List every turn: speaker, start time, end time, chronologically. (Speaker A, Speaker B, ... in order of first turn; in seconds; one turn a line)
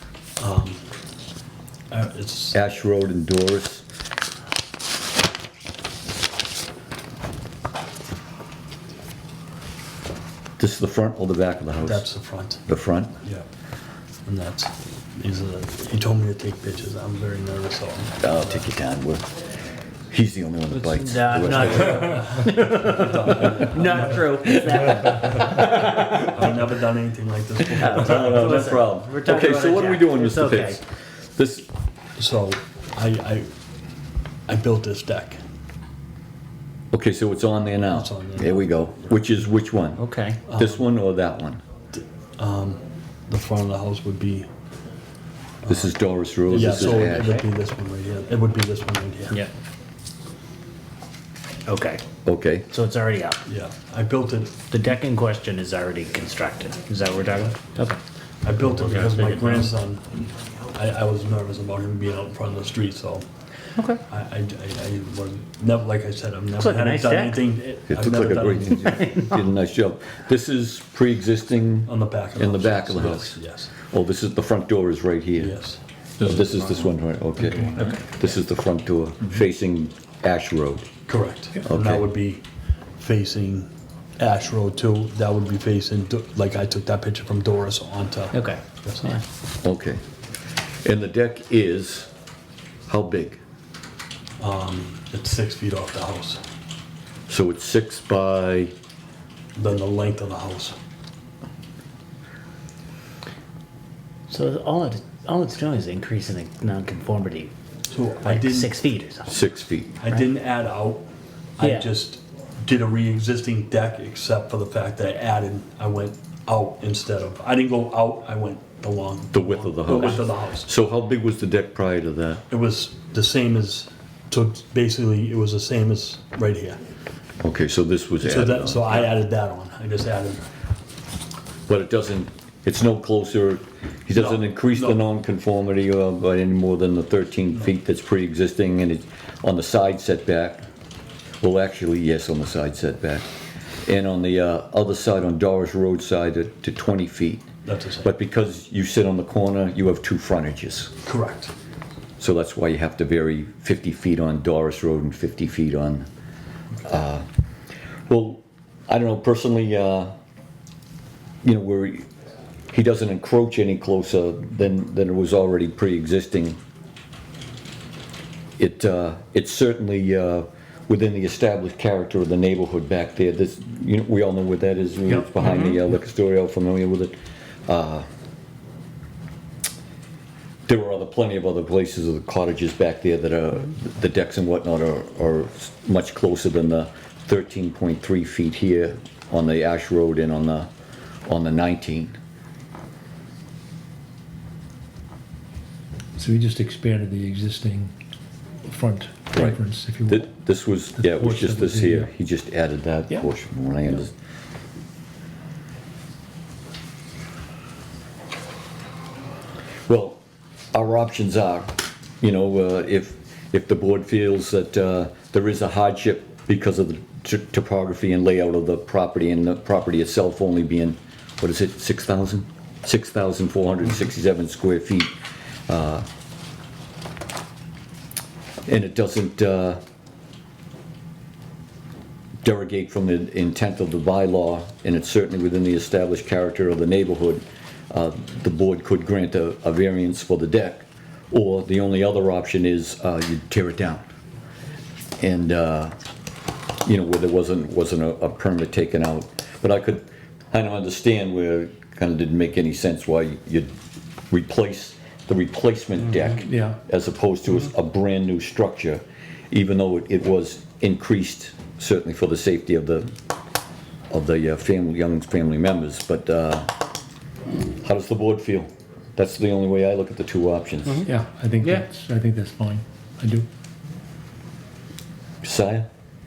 Speaker A: 0.4-0.8
Speaker A: 1.9-2.6
Speaker B: 2.5-3.8
Speaker B: 10.6-12.1
Speaker A: 11.8-12.6
Speaker B: 12.7-13.2
Speaker A: 13.2-13.5
Speaker A: 14.2-18.6
Speaker B: 18.2-19.3
Speaker B: 20.1-22.2
Speaker C: 20.7-26.3
Speaker A: 21.4-24.3
Speaker A: 25.8-28.8
Speaker C: 27.7-30.8
Speaker B: 27.9-31.7
Speaker A: 32.2-33.5
Speaker A: 34.5-35.4
Speaker B: 36.9-41.6
Speaker A: 37.9-38.6
Speaker C: 40.0-40.4
Speaker A: 40.5-40.8
Speaker A: 41.9-44.5
Speaker A: 45.6-45.9
Speaker B: 45.7-47.4
Speaker C: 46.5-47.4
Speaker A: 46.5-49.4
Speaker C: 51.7-52.0
Speaker B: 52.3-52.7
Speaker C: 52.7-53.4
Speaker A: 53.5-54.6
Speaker C: 54.7-58.0
Speaker A: 58.4-63.3
Speaker C: 59.0-59.7
Speaker A: 64.1-69.0
Speaker C: 66.6-67.5
Speaker B: 67.9-75.6
Speaker C: 69.0-69.3
Speaker A: 71.9-73.7
Speaker A: 75.4-75.8
Speaker B: 76.2-80.9
Speaker A: 81.1-82.4
Speaker B: 81.6-82.1
Speaker A: 83.0-83.7
Speaker A: 84.2-89.2
Speaker C: 88.3-89.2
Speaker B: 89.6-90.0
Speaker B: 90.8-92.1
Speaker B: 92.9-93.4
Speaker A: 94.4-96.4
Speaker B: 97.3-98.7
Speaker A: 99.5-100.8
Speaker C: 104.3-107.5
Speaker A: 107.9-108.8
Speaker C: 108.2-109.3
Speaker B: 109.3-110.0
Speaker A: 110.0-120.7
Speaker C: 111.6-111.9
Speaker B: 119.3-122.4
Speaker A: 122.5-126.8
Speaker B: 127.4-129.1
Speaker A: 128.2-130.5
Speaker B: 131.7-140.7
Speaker A: 134.1-135.0
Speaker B: 141.4-143.3
Speaker B: 143.8-147.5
Speaker A: 147.7-148.1
Speaker B: 148.0-150.9
Speaker A: 151.0-151.5
Speaker B: 152.2-156.1
Speaker B: 156.8-157.3
Speaker B: 158.1-160.1
Speaker B: 161.4-162.1
Speaker B: 162.7-166.6
Speaker B: 168.6-177.2
Speaker D: 175.3-175.8
Speaker B: 177.7-178.1
Speaker B: 180.7-190.7
Speaker B: 191.3-192.2
Speaker D: 196.2-197.9
Speaker D: 198.6-200.3
Speaker B: 199.3-204.1
Speaker D: 201.0-202.1
Speaker B: 209.9-210.2
Speaker B: 210.7-225.2
Speaker B: 225.7-226.1
Speaker B: 228.7-229.8
Speaker B: 232.4-244.1
Speaker B: 245.2-246.0
Speaker B: 246.8-253.7
Speaker B: 254.3-263.1
Speaker D: 256.4-256.8
Speaker B: 264.1-266.7
Speaker B: 267.8-271.1
Speaker D: 271.0-273.5
Speaker B: 275.4-275.9